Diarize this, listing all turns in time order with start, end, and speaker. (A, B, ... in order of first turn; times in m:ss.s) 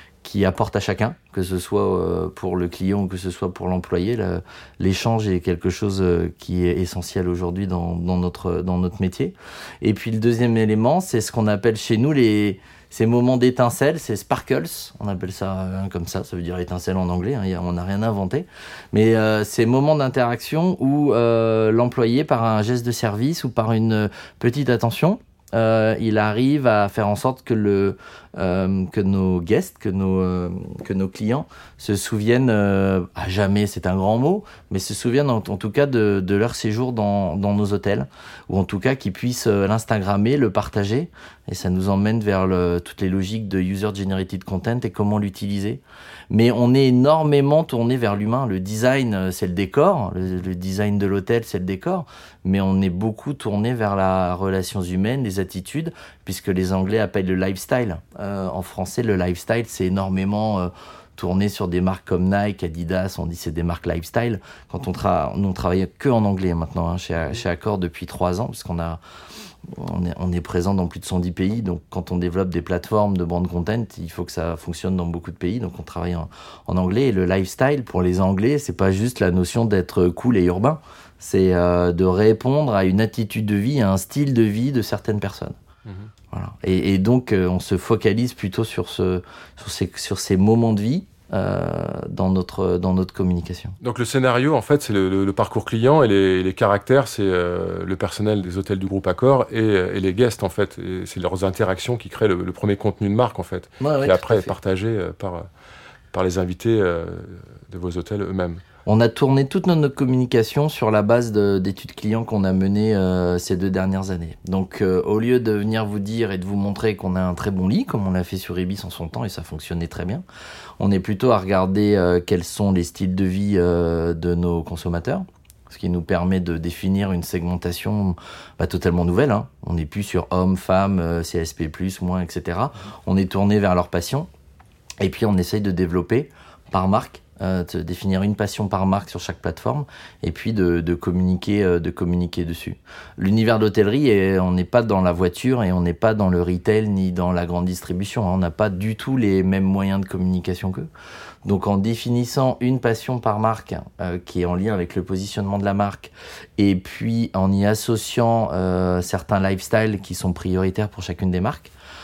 0:00.2-1:09.0 A
1:09.7-1:25.6 A
1:25.8-1:26.1 B
1:26.3-1:33.8 A
1:33.8-1:45.4 B
1:43.8-1:44.5 A
1:46.1-1:48.6 B
1:48.9-2:00.2 A
2:00.8-2:14.3 A
2:15.0-2:30.9 A
2:31.4-2:41.7 A